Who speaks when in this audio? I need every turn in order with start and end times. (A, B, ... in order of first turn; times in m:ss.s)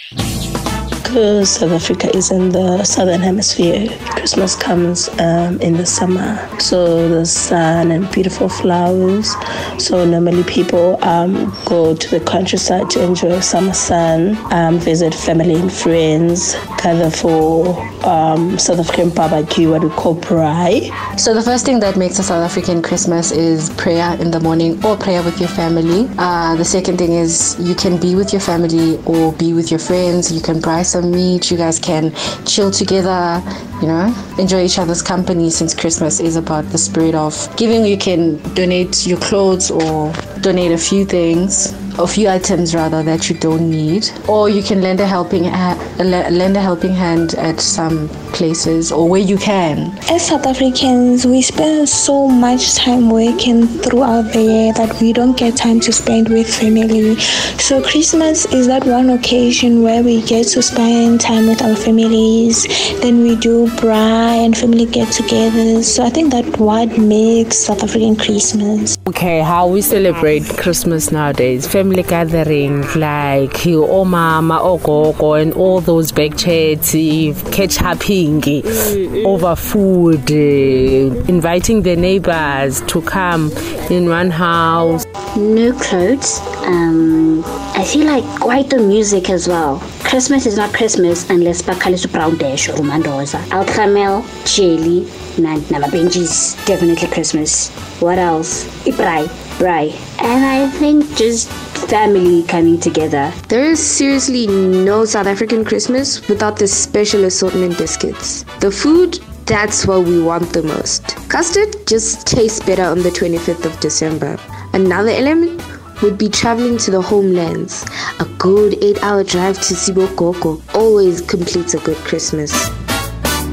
0:01.0-0:21.0 A
0:21.1-0:50.0 B
0:50.1-1:09.0 C
1:09.1-1:25.0 D
1:25.3-1:43.4 E
1:43.5-2:02.7 F